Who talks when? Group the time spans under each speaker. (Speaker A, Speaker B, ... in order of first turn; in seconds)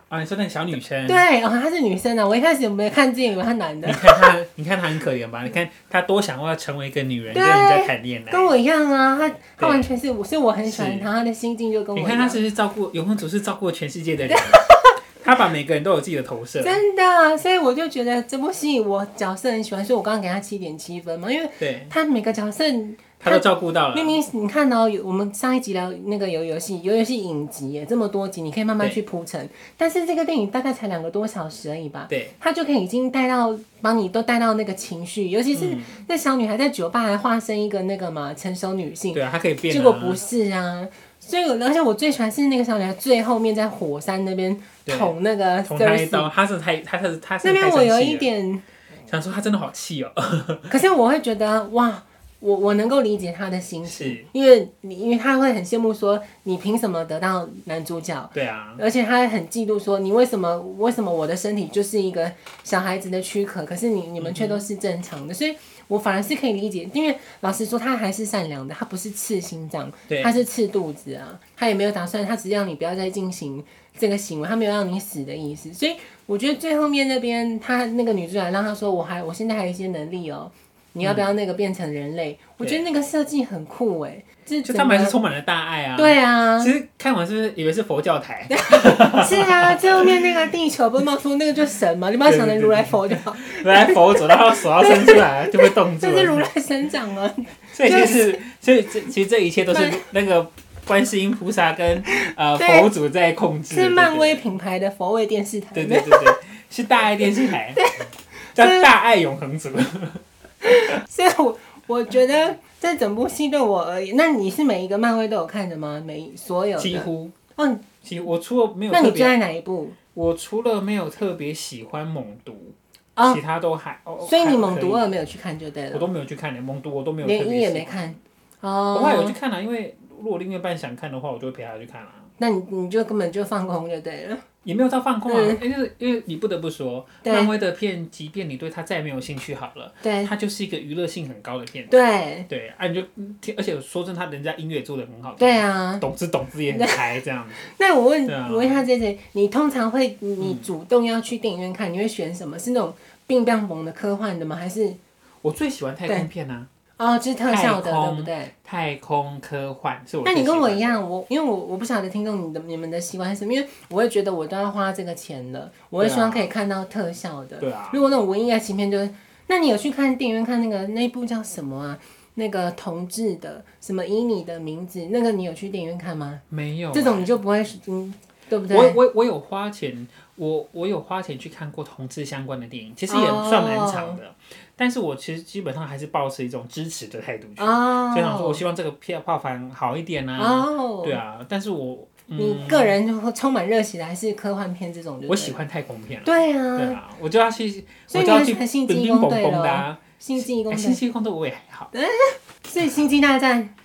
Speaker A: 0.1-1.2, 3.8-8.5, 9.6-9.9, 10.6-11.1, 11.9-14.6, 15.2-16.8, 21.6-21.9, 23.2-24.1, 32.1-32.3, 35.5-36.0, 39.1-40.2, 44.9-48.3, 49.1-50.7, 53.8-54.3, 58.3-58.8, 64.2-64.7, 70.1-70.3, 84.6-90.4, 92.2-96.5, 97.7-104.4, 105.7-107.8, 108.5-110.2, 116.8-117.3, 118.0-119.4, 120.1-125.1, 125.9-128.0, 128.9-132.3, 134.6-141.9, 142.5-147.6, 148.2-148.8, 150.4-150.7, 155.4-156.7, 157.5-161.0, 166.0-166.5, 167.6-168.0, 176.5-177.3, 178.7-192.9, 195.3-201.9
Speaker B: 1.1-4.3, 7.3-12.4, 14.3-15.0, 16.6-46.3, 47.4-48.6, 50.7-85.2, 86.0-86.7, 88.5-98.4, 99.7-100.1, 102.1-102.9, 103.7-106.3, 107.7-108.9, 110.6-117.8, 118.9-120.0, 124.2-126.1, 127.2-129.3, 132.4-134.4, 135.3-135.6, 137.2-137.5, 140.0-140.3, 141.9-142.5, 145.4-146.1, 146.7-155.0, 157.0-158.5, 160.2-179.0, 183.1-184.2, 187.6-188.6, 190.4-191.2, 192.4-195.6, 196.2-197.0, 198.1-201.0, 201.9-203.7